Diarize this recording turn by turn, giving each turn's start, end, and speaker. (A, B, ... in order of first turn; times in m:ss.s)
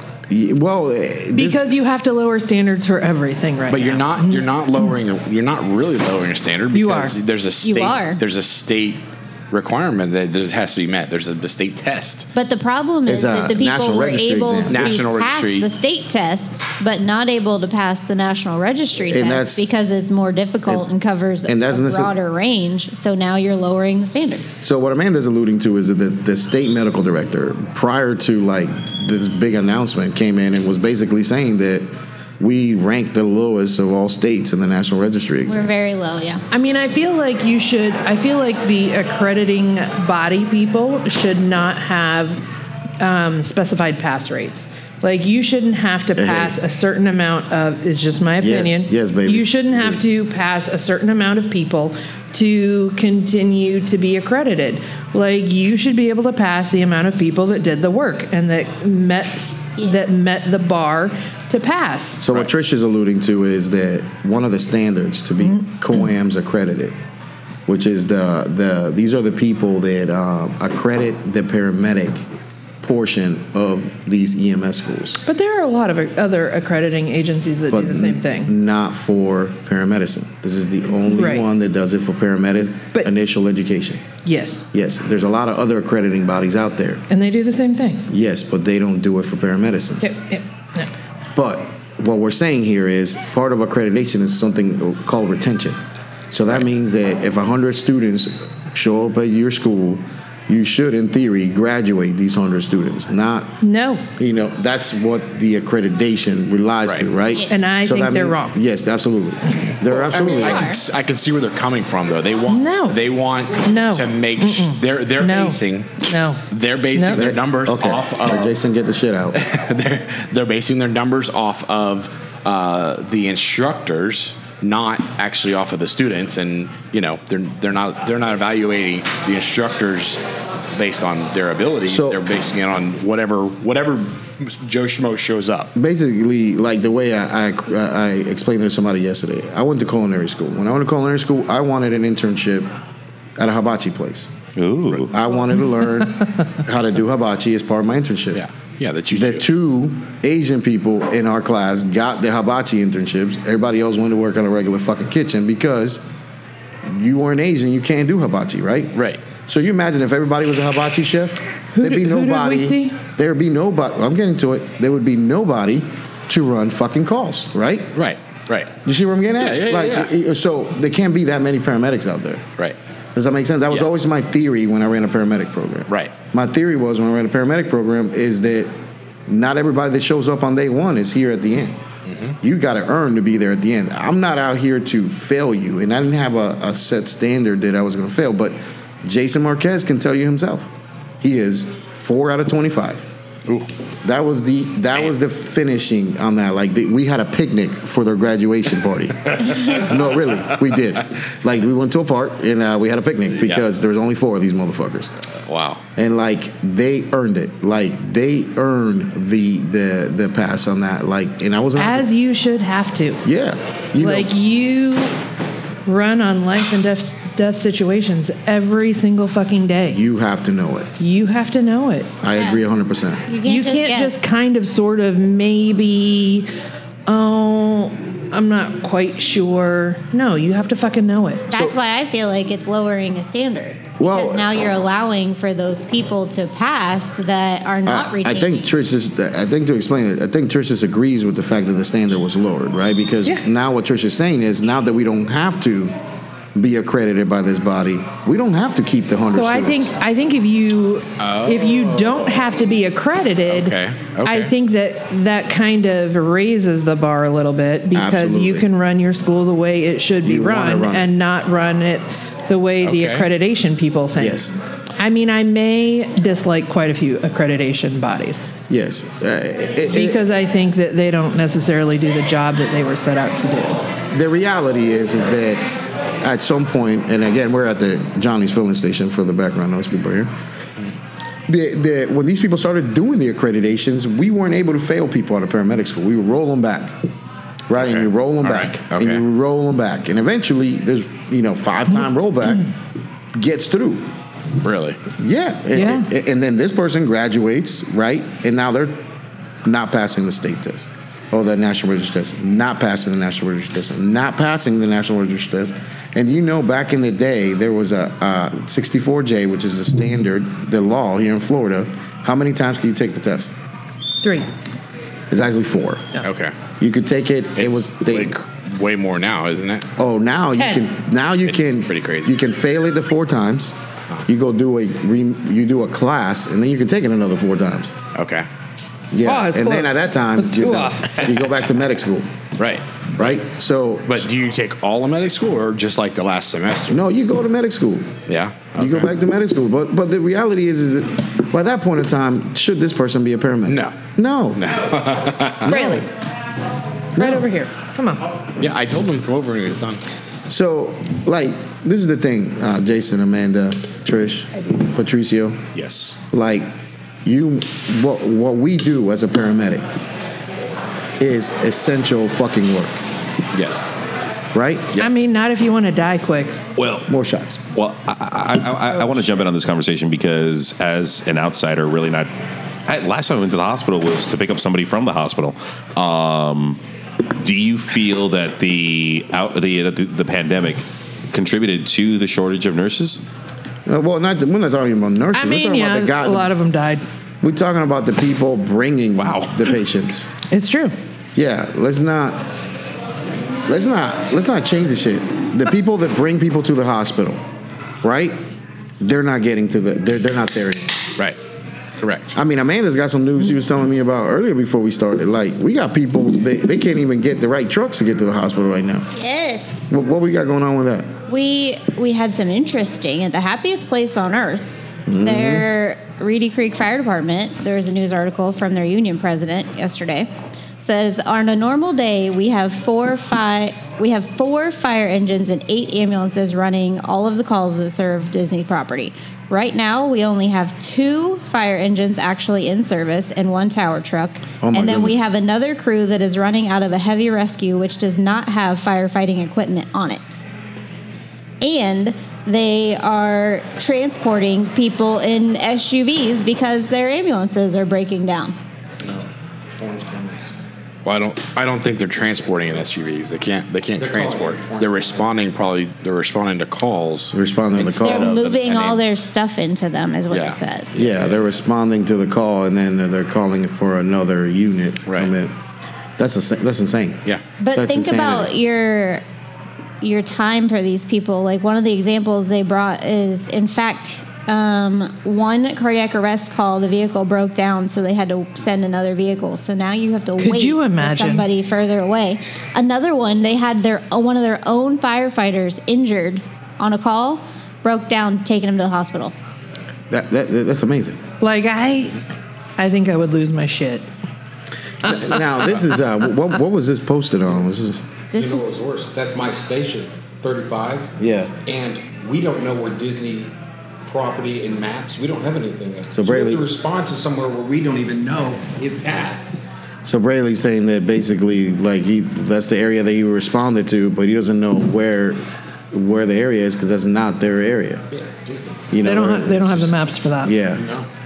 0:00.3-0:01.6 A
0:01.3-0:04.5 B
0:03.7-0:12.3 C
0:06.7-0:07.1 B
0:07.6-0:08.2 D
0:12.3-0:24.4 D
0:13.0-0:15.0 A
0:14.7-0:15.7 C
0:19.1-0:19.6 A
0:21.5-0:22.1 A
0:24.6-0:31.8 A
0:32.4-0:35.7 A
0:35.4-0:36.4 D
0:36.5-0:42.4 B
0:43.0-1:02.2 B
0:46.2-0:46.5 A
0:48.4-0:50.0 A
1:02.2-1:06.9 A
1:07.7-1:12.2 A
1:12.8-1:15.2 A
1:15.2-1:18.5 B
1:17.7-1:24.1 A
1:21.1-1:21.5 B
1:24.2-1:24.6 B
1:24.7-1:27.0 A
1:27.1-1:28.0 B
1:28.1-1:30.0 A
1:30.0-1:30.9 B
1:31.3-1:35.8 A
1:36.3-1:43.5 A
1:43.6-1:44.0 B
1:44.2-1:50.7 A
1:47.5-1:48.5 B
1:49.9-1:50.8 D
1:50.0-1:58.5 C
1:52.5-1:53.0 B
1:53.6-1:56.4 B
1:56.9-1:57.2 B
1:57.1-1:59.4 A
1:59.3-2:10.2 C
2:10.7-2:15.7 C
2:11.8-2:12.2 A
2:15.7-2:22.7 A
2:23.4-2:24.3 A
2:24.6-2:25.1 E
2:24.9-2:28.4 A
2:28.3-2:29.4 C
2:29.1-2:36.0 A
2:36.8-2:48.0 A
2:38.9-2:39.2 C
2:41.7-2:43.0 B
2:47.9-2:48.7 C
2:48.8-2:52.4 A
2:49.4-2:50.1 C
2:53.1-2:58.7 A
2:59.3-3:01.8 A
3:02.0-3:02.4 C
3:02.4-3:13.0 A
3:14.0-3:25.1 A
3:19.5-3:20.1 C
3:25.3-3:25.8 C
3:26.0-3:32.1 A
3:31.8-3:33.2 B
3:33.2-3:34.3 A
3:34.0-3:35.2 B
3:35.8-3:40.0 B
3:39.9-3:40.9 A
3:41.0-3:42.1 B
3:42.2-3:43.2 A
3:42.3-3:42.6 D
3:43.3-3:44.2 D
3:43.4-3:46.5 B
3:47.0-3:51.7 B
3:51.5-3:58.7 D
3:54.0-3:54.7 A
3:57.8-4:05.9 A
4:06.5-4:09.9 A
4:09.3-4:24.4 B
4:11.2-4:12.1 C
4:13.5-4:14.5 C
4:17.9-4:18.7 A
4:20.2-4:21.1 A
4:22.8-4:23.3 C
4:24.2-4:24.6 A
4:25.0-4:28.4 B
4:28.7-4:30.2 A
4:29.9-4:33.8 B
4:34.1-4:35.6 A
4:36.2-4:40.3 A
4:41.5-4:47.0 A
4:47.7-4:52.7 A
4:47.8-4:49.2 C
4:53.3-4:54.1 A
4:54.6-4:55.0 C
4:55.2-4:59.0 A
4:55.7-4:56.1 B
4:59.6-5:13.6 A
5:15.3-5:16.2 A
5:16.2-5:16.6 C
5:16.8-5:18.3 A
5:17.6-5:19.9 C
5:20.0-5:28.0 A
5:20.6-5:20.8 B
5:21.4-5:22.4 C
5:28.1-5:28.5 C
5:29.1-5:32.3 A
5:29.3-5:31.2 B
5:31.2-5:31.5 C
5:32.6-5:33.4 C
5:33.2-5:34.3 A
5:34.1-5:37.0 C
5:36.9-5:38.1 A
5:38.3-5:39.1 C
5:38.7-5:45.0 A
5:43.7-5:44.0 C
5:44.6-5:45.7 C
5:45.6-5:46.1 A
5:45.6-5:46.0 B
5:47.2-5:47.5 A
5:47.2-5:48.3 B
5:48.6-5:50.0 C
5:50.5-5:55.6 A
5:55.7-5:56.2 E
5:56.3-5:56.7 A
5:57.2-5:59.8 A
6:01.2-6:03.0 A
6:03.5-6:03.9 C
6:04.5-6:05.0 A
6:05.0-6:06.6 B
6:06.8-6:07.1 E
6:07.1-6:07.6 A
6:07.7-6:12.3 E
6:12.9-6:16.8 E
6:17.4-6:23.2 E
6:23.9-6:26.5 A
6:25.3-6:27.0 B
6:27.4-6:30.3 A
6:30.5-6:30.9 B
6:31.4-6:32.4 A
6:33.6-6:37.4 A
6:38.0-6:38.4 A
6:39.0-6:41.0 A
6:42.0-6:42.3 C
6:42.3-6:49.1 A
6:49.2-6:49.8 D
6:49.9-6:51.1 A
6:51.3-7:20.4 D
6:55.1-6:55.6 A
7:14.6-7:15.2 A
7:21.6-7:28.6 D
7:29.8-7:30.5 F
7:31.0-7:39.0 C
7:34.0-7:35.1 F
7:37.3-7:38.4 A
7:37.8-7:41.0 D
7:40.3-7:41.4 C
7:40.9-7:45.5 A
7:45.1-7:45.3 C
7:46.2-7:48.5 A
7:47.6-7:49.2 D
7:50.0-8:09.3 D
8:00.4-8:01.5 B
8:10.1-8:11.2 A
8:11.4-8:12.2 B
8:12.8-8:14.0 B
8:15.0-8:18.0 A
8:18.3-8:18.7 D
8:18.4-8:21.1 F
8:21.2-8:21.5 A
8:21.6-8:23.5 F
8:24.0-8:29.4 F
8:26.1-8:26.7 A
8:30.0-8:38.0 A
8:38.1-8:38.9 F
8:38.9-8:40.8 A
8:39.0-8:40.6 B
8:40.7-8:41.1 F